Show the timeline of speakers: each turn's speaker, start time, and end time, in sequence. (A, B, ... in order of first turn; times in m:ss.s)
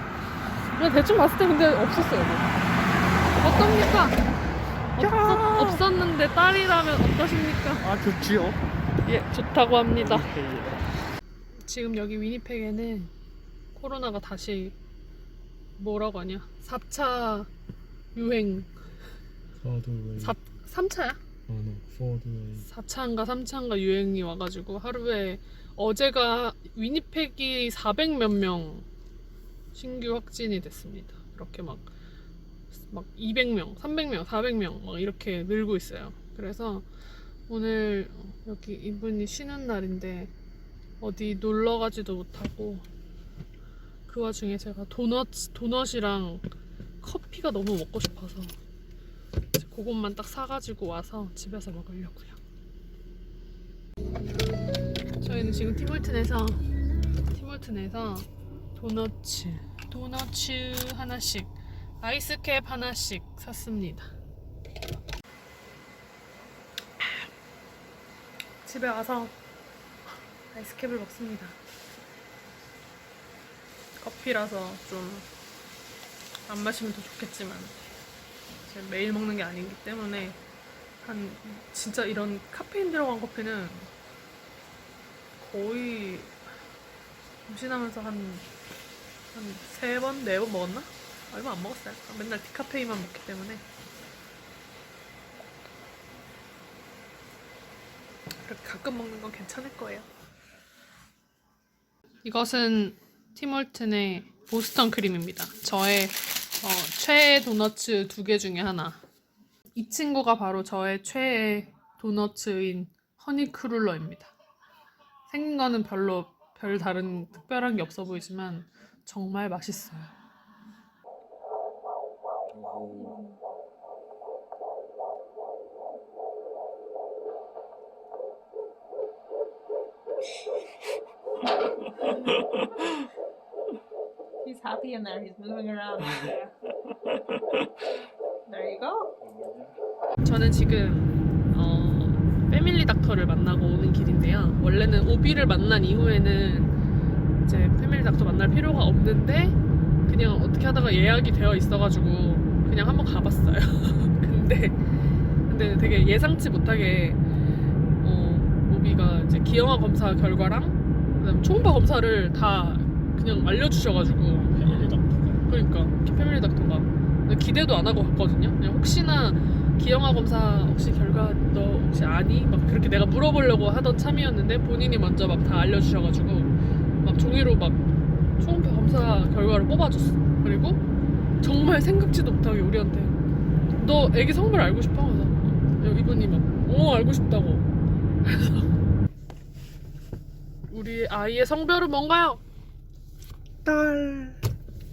0:00.7-0:02.5 A
0:03.4-0:04.2 A
0:05.0-0:07.9 A
0:05.0-0:05.8 B
0:07.8-0:08.6 B
0:09.0-0:10.3 A
0:10.0-0:10.8 B
0:11.6-0:13.1 A
0:13.8-0:14.8 A
0:15.8-0:17.5 A
0:18.2-0:18.7 A
0:19.6-0:20.4 B
0:20.2-0:21.2 A
0:21.5-0:22.7 B
0:22.7-0:28.8 A
0:29.7-0:31.9 A
0:32.9-0:36.9 A
0:37.5-0:40.3 A
0:41.0-0:42.8 A
0:44.1-0:46.4 A
0:47.0-0:48.6 A
0:49.6-0:52.4 A
0:55.2-0:56.6 A
0:57.3-1:04.1 A
1:08.6-1:09.4 A
1:10.5-1:11.6 A
1:14.0-1:15.3 A
1:16.5-1:17.8 A
1:18.7-1:20.4 A
1:21.0-1:23.9 A
1:25.4-1:26.4 A
1:27.5-1:28.5 A
1:29.3-1:33.6 A
1:38.4-1:40.1 A
1:42.2-1:49.0 A
1:49.8-1:54.3 A
1:55.3-2:00.1 A
2:02.6-2:03.2 B
2:02.9-2:03.4 C
2:14.4-2:16.5 C
2:18.5-2:19.1 C
2:20.2-2:26.8 A
2:27.4-2:34.8 A
2:35.5-2:37.2 A
2:38.0-2:57.8 A
2:44.5-2:45.4 B
2:58.4-3:00.8 A
3:01.4-3:03.2 A
3:03.8-3:07.7 A
3:08.3-3:08.7 A
3:10.7-3:12.4 A
3:13.6-3:14.4 B